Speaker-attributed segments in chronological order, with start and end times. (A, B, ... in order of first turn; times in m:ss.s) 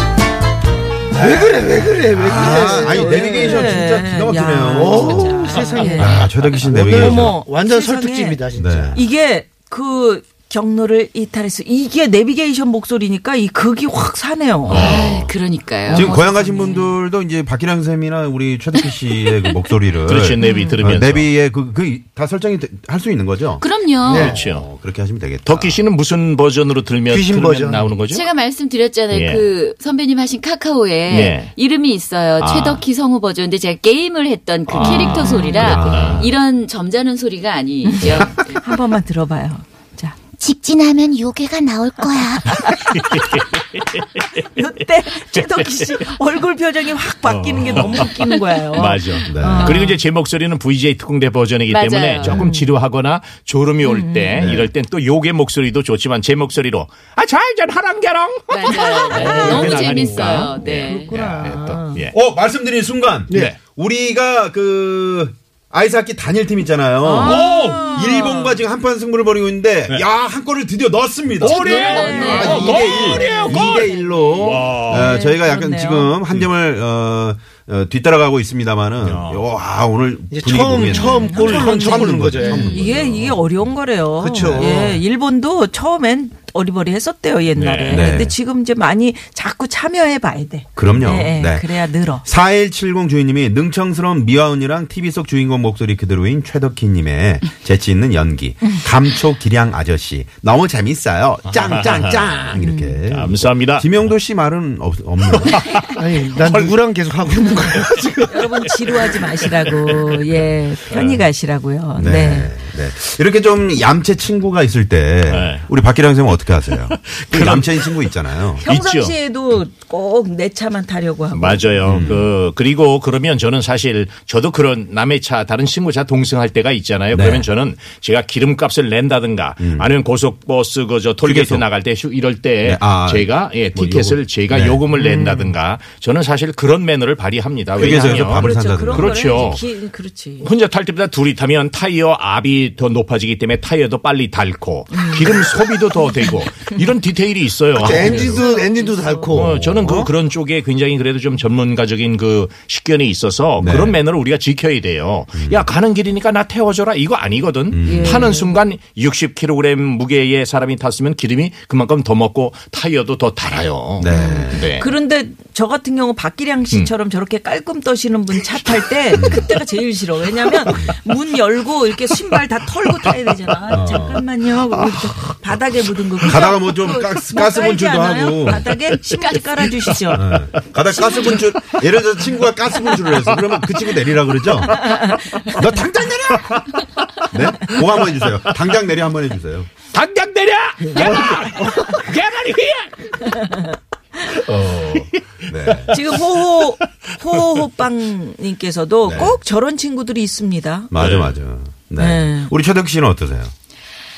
0:01.2-0:03.8 A
0:02.2-0:07.4 B
0:02.2-0:15.0 C
0:04.7-0:09.0 A
0:08.6-0:09.0 B
0:14.7-0:15.4 B
0:14.7-0:15.2 D
0:14.7-0:17.0 E
0:15.9-0:16.8 C
0:15.9-0:25.8 B
0:20.1-0:21.3 D
0:20.4-0:20.8 C
0:20.4-0:20.7 E
0:23.6-0:24.3 E
0:24.0-0:24.4 A
0:24.1-0:24.7 D
0:25.4-0:28.3 D
0:27.1-0:28.0 A
0:28.1-0:38.6 E
0:29.1-0:29.5 D
0:31.1-0:31.5 D
0:32.4-0:32.8 D
0:34.7-0:36.3 D
0:34.8-0:35.7 C
0:35.6-0:36.3 B
0:37.8-0:40.2 C
0:40.4-0:42.5 E
0:42.4-0:43.1 C
0:42.6-0:44.3 D
0:44.4-0:50.0 C
0:45.3-0:45.9 D
0:47.2-0:48.1 D
0:48.7-1:02.2 D
0:49.3-0:49.8 B
0:51.7-0:52.4 E
0:52.3-0:52.7 C
0:53.9-0:54.5 C
0:54.4-0:54.7 B
0:58.5-1:01.2 E
0:58.7-1:02.0 C
1:01.2-1:23.5 B
1:07.0-1:08.6 C
1:07.1-1:07.9 D
1:11.4-1:15.2 D
1:11.5-1:16.2 C
1:11.8-1:12.7 E
1:19.0-1:19.5 D
1:20.3-1:22.8 A
1:20.9-1:32.2 C
1:24.2-1:25.0 A
1:27.6-1:28.1 D
1:27.9-1:28.3 B
1:30.8-1:45.6 B
1:41.5-1:44.1 D
1:42.6-1:43.0 C
1:45.3-1:46.8 D
1:46.0-1:48.4 A
1:47.4-1:51.2 D
1:48.3-1:52.5 C
1:52.0-1:58.6 B
1:55.3-1:55.7 D
1:56.7-1:59.2 D
1:58.6-2:01.8 C
2:01.3-2:19.7 D
2:01.8-2:02.3 B
2:07.1-2:07.5 B
2:09.6-2:09.9 B
2:11.2-2:11.7 B
2:12.6-2:14.9 B
2:14.9-2:15.5 A
2:17.8-2:19.6 B
2:17.8-2:20.5 C
2:20.4-2:28.5 D
2:24.9-2:25.4 C
2:27.8-2:30.1 A
2:27.8-2:29.4 C
2:29.3-2:44.9 D
2:33.6-2:34.0 B
2:35.4-2:35.7 B
2:37.7-2:38.3 B
2:37.8-2:38.6 C
2:44.0-2:44.7 B
2:44.1-3:01.4 C
2:49.1-2:49.5 B
2:50.7-2:51.0 B
2:53.7-2:54.2 B
2:56.2-2:58.8 B
3:00.1-3:04.9 B
3:02.9-3:03.8 D
3:04.4-3:05.5 D
3:05.5-3:06.7 B
3:06.3-3:07.8 D
3:07.3-3:09.7 B
3:08.4-3:08.7 D
3:09.9-3:13.6 D
3:11.0-3:12.0 A
3:14.3-3:16.0 B
3:15.7-3:15.9 D
3:15.9-3:20.9 C
3:19.1-3:19.4 B
3:20.9-3:23.5 B
3:21.0-3:21.4 D
3:22.0-3:22.5 C